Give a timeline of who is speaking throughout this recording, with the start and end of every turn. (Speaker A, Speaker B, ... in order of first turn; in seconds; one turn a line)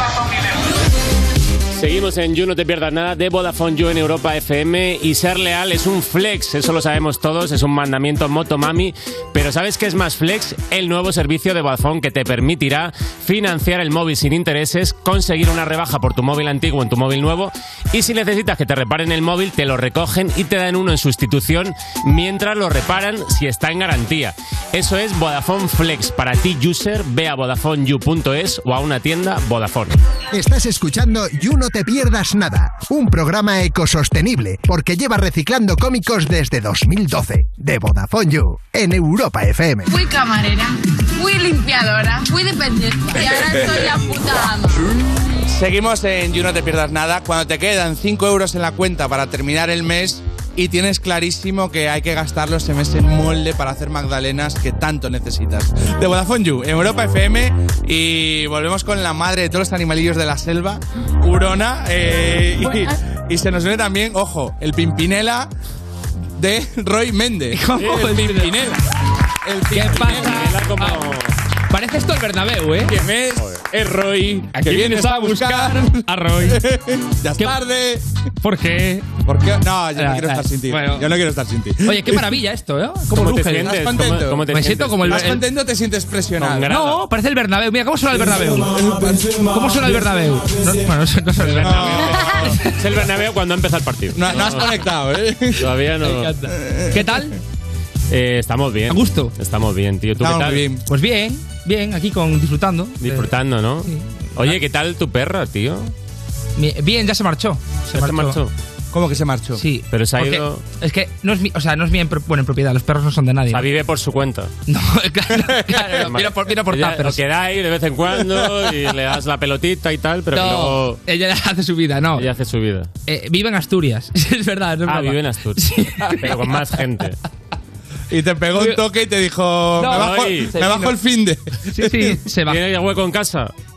Speaker A: 1.7-30.0
Speaker B: 30.3-39.9
Speaker C: 39.9-44.8
Speaker D: 45.5-65.5
Speaker D: 66.4-68.8
Speaker E: 67.5-68.6
Speaker D: 69.4-70.5
Speaker E: 69.7-71.0
Speaker A: 69.9-71.3
Speaker E: 71.7-73.0
Speaker D: 72.9-78.1
Speaker A: 73.3-73.7
Speaker E: 74.5-76.6
Speaker E: 78.4-79.1
Speaker D: 79.2-82.2
Speaker E: 80.0-81.2
Speaker E: 81.8-83.8
Speaker A: 83.1-85.4
Speaker D: 83.5-84.5
Speaker E: 84.5-85.5
Speaker D: 85.0-86.7
Speaker A: 86.4-87.0
Speaker E: 86.7-92.5
Speaker D: 88.8-89.7
Speaker A: 91.5-94.9
Speaker D: 91.6-92.5
Speaker D: 94.1-95.7
Speaker A: 95.5-96.3
Speaker D: 96.4-97.1
Speaker E: 96.9-97.3
Speaker A: 98.1-100.6
Speaker E: 98.9-99.3
Speaker D: 100.2-100.8
Speaker E: 100.9-103.3
Speaker A: 103.0-105.9
Speaker E: 103.8-104.5
Speaker E: 106.6-108.4
Speaker A: 107.9-108.5
Speaker D: 108.9-109.6
Speaker E: 109.6-113.7
Speaker A: 109.9-110.6
Speaker A: 113.5-114.5
Speaker E: 114.7-117.2
Speaker A: 115.9-121.0
Speaker E: 120.3-122.3
Speaker A: 122.2-122.9
Speaker E: 123.1-126.6
Speaker A: 124.9-127.2
Speaker D: 128.1-132.2
Speaker E: 128.6-128.8
Speaker E: 129.8-131.0
Speaker A: 129.8-130.6
Speaker E: 131.7-132.6
Speaker A: 132.5-133.5